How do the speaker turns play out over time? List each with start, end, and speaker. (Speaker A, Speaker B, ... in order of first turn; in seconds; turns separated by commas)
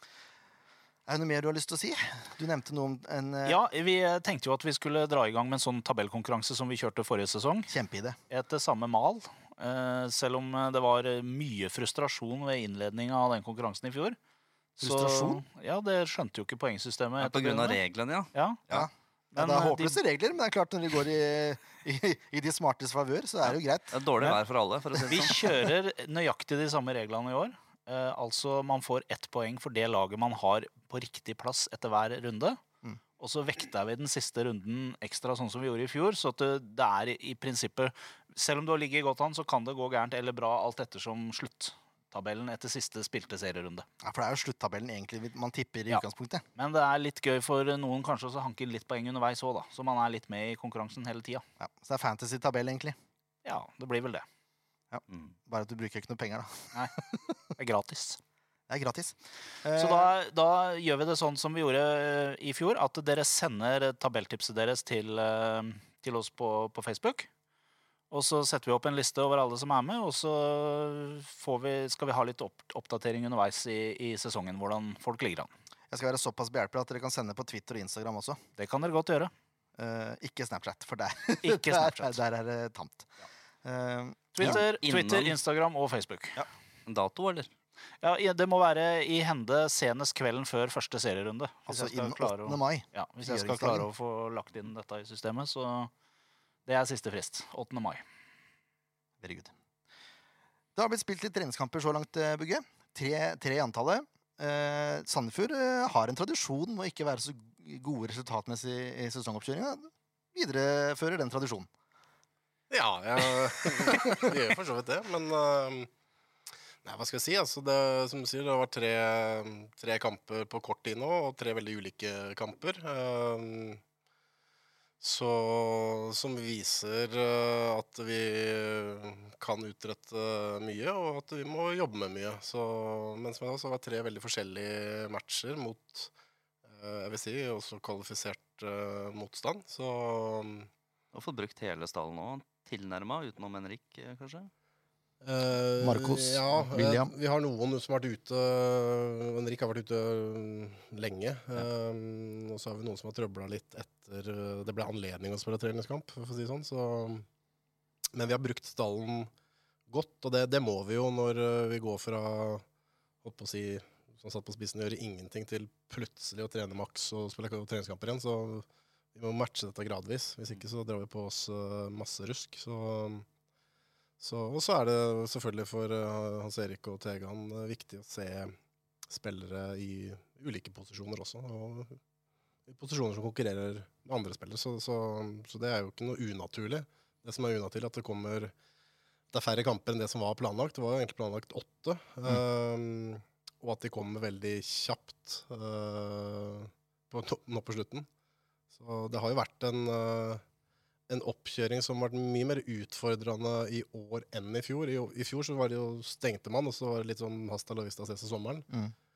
Speaker A: 1.1-3.6, Speaker B: 3.4-7.7, Speaker A: 7.7-8.2, Speaker B: 8.3-14.2, Speaker A: 14.8-15.4, Speaker B: 14.8-17.8, Speaker C: 17.2-18.9, Speaker B: 18.3-18.6, Speaker A: 18.7-24.0, Speaker B: 19.3-20.0, Speaker C: 23.9-25.5, Speaker B: 25.1-32.6, Speaker B: 33.2-43.9, Speaker A: 44.0-46.4, Speaker B: 46.5-51.4, Speaker A: 51.6-53.0, Speaker B: 53.4-54.2, Speaker A: 54.9-57.2, Speaker B: 57.5-58.2, Speaker A: 58.7-60.1, Speaker B: 59.8-67.3, Speaker B: 68.1-75.5, Speaker A: 75.9-78.4, Speaker B: 78.6-79.3, Speaker A: 79.8-83.1, Speaker B: 81.4-82.2, Speaker A: 83.6-84.6, Speaker B: 84.3-86.4, Speaker C: 84.4-85.4, Speaker C: 86.8-87.5, Speaker B: 88.0-95.9, Speaker A: 91.7-93.8, Speaker B: 96.7-98.0, Speaker A: 99.2-99.5, Speaker A: 100.7-111.7, Speaker D: 112.7-115.9, Speaker D: 116.8-123.8, Speaker D: 125.0-136.1, Speaker D: 136.7-140.7, Speaker C: 141.1-144.5, Speaker D: 145.2-157.2, Speaker A: 145.8-147.1, Speaker D: 158.1-159.3, Speaker D: 159.9-162.6, Speaker D: 163.2-173.2, Speaker D: 174.2-178.5, Speaker D: 179.1-182.0, Speaker D: 182.7-188.5, Speaker D: 189.3-198.1, Speaker D: 198.7-200.4, Speaker D: 201.1-208.7